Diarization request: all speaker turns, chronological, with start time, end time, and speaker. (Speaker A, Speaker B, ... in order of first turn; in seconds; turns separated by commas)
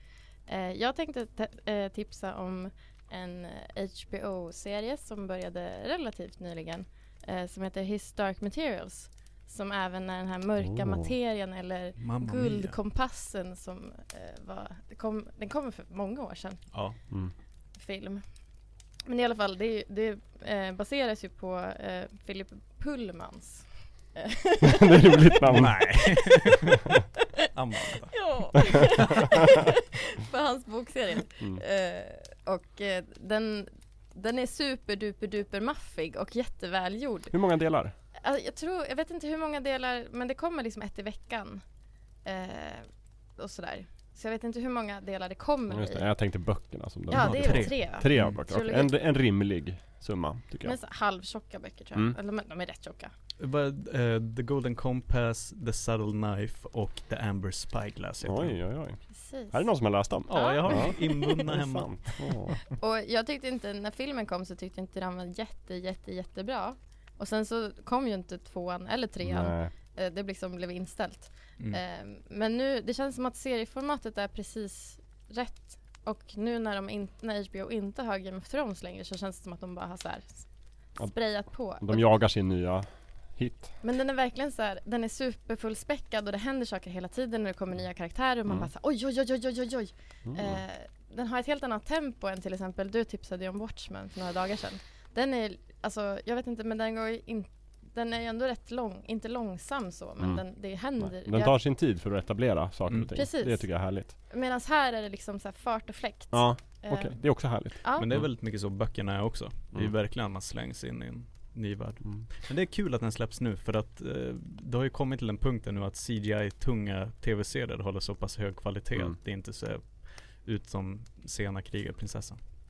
Speaker A: 0.5-17.1, Speaker B: 10.6-11.1, Speaker C: 12.0-12.8, Speaker C: 16.7-17.0, Speaker A: 17.7-18.2, Speaker A: 19.1-25.2, Speaker B: 24.7-26.2, Speaker C: 25.4-26.8, Speaker C: 27.5-28.9, Speaker A: 28.1-37.4, Speaker B: 37.3-37.9, Speaker A: 38.1-41.6, Speaker A: 42.2-46.1, Speaker B: 45.7-50.8, Speaker A: 47.1-48.9, Speaker C: 47.1-48.4, Speaker A: 50.6-53.1, Speaker C: 53.4-58.6, Speaker B: 58.2-62.6, Speaker A: 59.1-61.5, Speaker C: 60.3-62.3, Speaker A: 62.2-82.2, Speaker B: 69.2-69.7, Speaker B: 81.0-83.8, Speaker A: 83.8-101.6, Speaker B: 90.2-90.6, Speaker B: 100.2-104.1, Speaker C: 102.9-103.2, Speaker A: 103.1-108.1, Speaker B: 106.3-108.3, Speaker C: 108.0-122.4, Speaker B: 112.0-112.3